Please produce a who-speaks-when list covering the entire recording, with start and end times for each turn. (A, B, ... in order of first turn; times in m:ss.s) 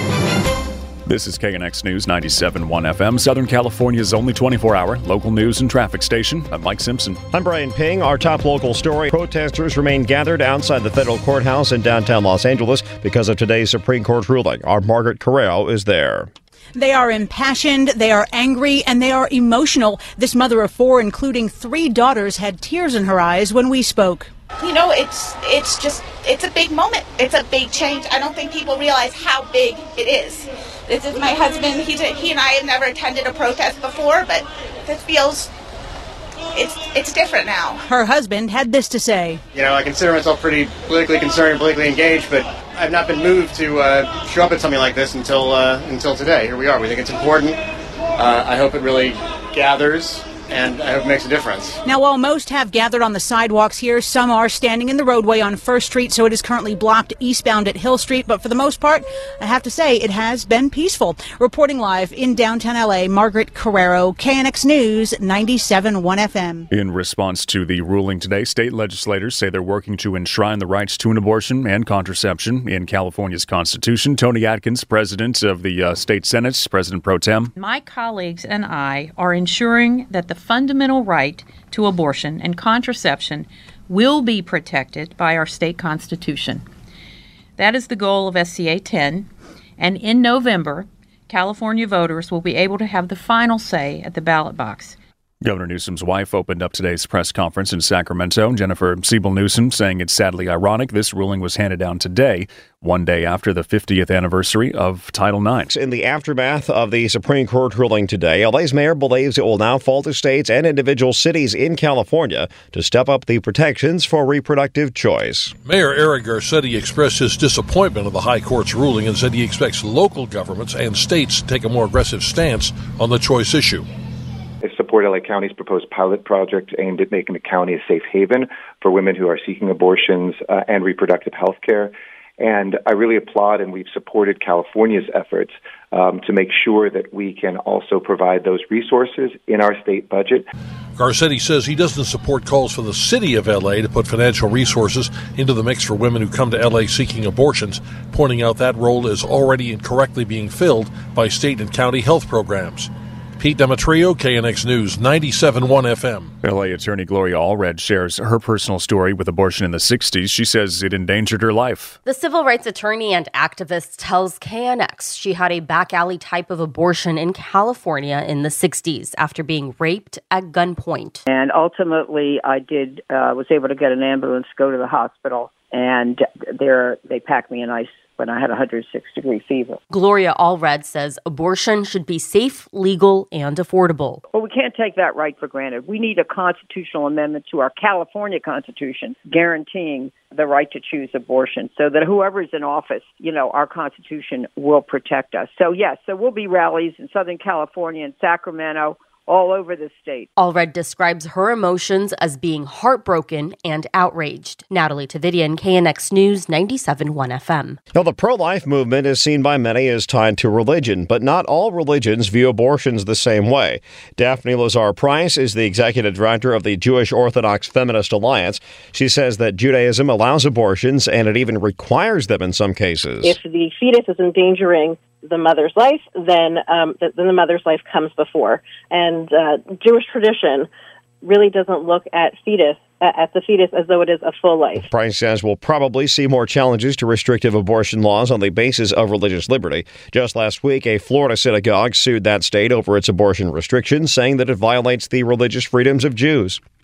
0:01.0-0:07.2 A
0:07.3-0:16.3 B
0:16.8-0:24.3 C
0:24.6-0:35.5 D
0:36.5-0:37.8 D
0:37.8-0:39.4 C
0:39.5-0:47.5 E
0:48.2-0:51.6 E
0:51.8-1:06.7 C
1:06.7-1:17.5 A
1:17.6-1:26.6 F
1:27.6-1:35.0 F
1:35.4-1:45.7 A
1:45.7-1:55.5 B
1:55.6-2:03.9 G
2:04.6-2:20.4 H
2:21.0-2:36.3 G
2:36.4-2:42.0 A
2:42.0-2:51.3 I
2:51.3-2:59.8 J
2:59.9-3:04.2 I
3:04.3-3:20.3 J
3:20.4-3:27.8 I
3:27.9-3:43.4 B
3:43.2-3:50.7 K
3:51.2-3:54.9 K
3:54.8-4:06.6 B